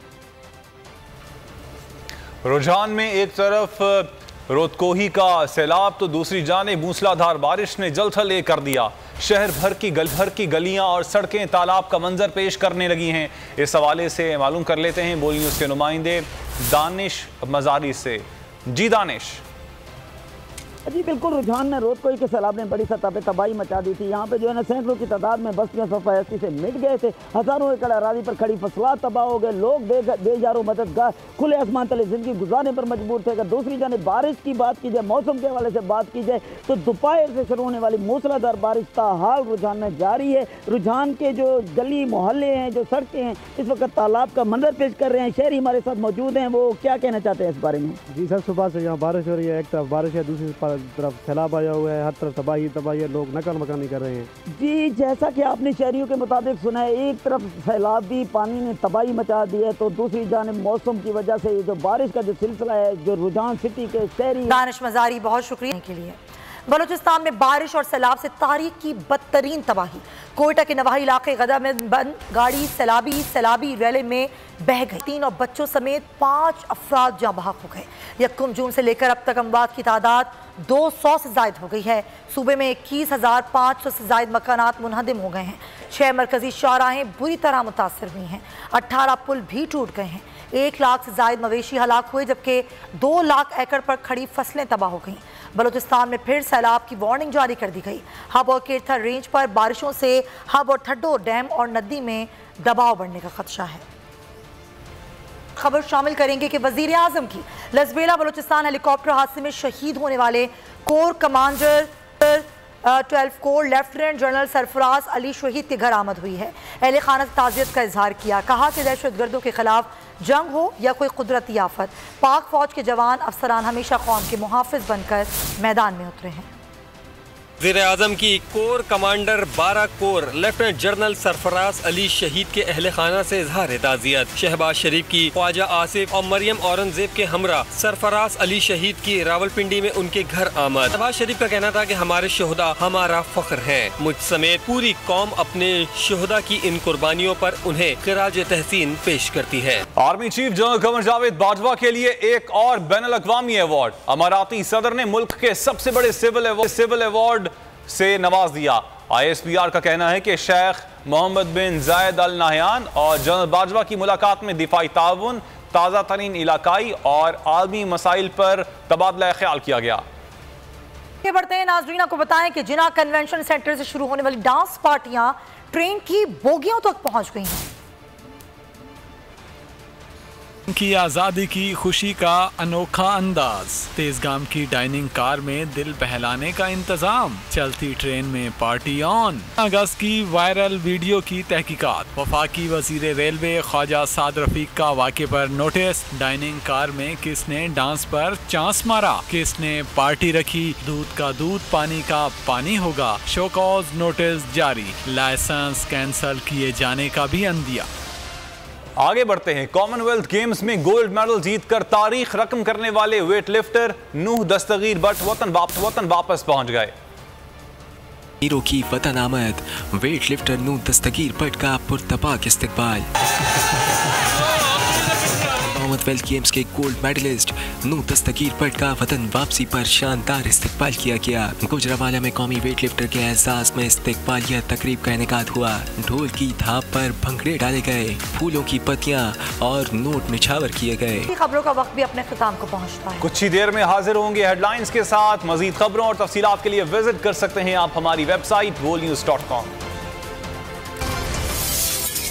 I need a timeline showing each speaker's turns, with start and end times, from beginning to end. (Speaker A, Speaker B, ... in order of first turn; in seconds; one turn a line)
Speaker A: 2.4-19.4
Speaker B: 20.9-48.0
Speaker C: 48.1-54.3
Speaker B: 54.5-64.6
Speaker D: 64.5-103.8
Speaker D: 105.5-126.5
Speaker E: 127.6-149.8
Speaker A: 150.0-170.0
Speaker D: 171.2-177.7
Speaker F: 180.7-207.9
Speaker A: 209.0-216.9
Speaker G: 218.4-223.0
Speaker G: 225.7-241.2
Speaker D: 241.2-243.3
Speaker A: 243.2-249.7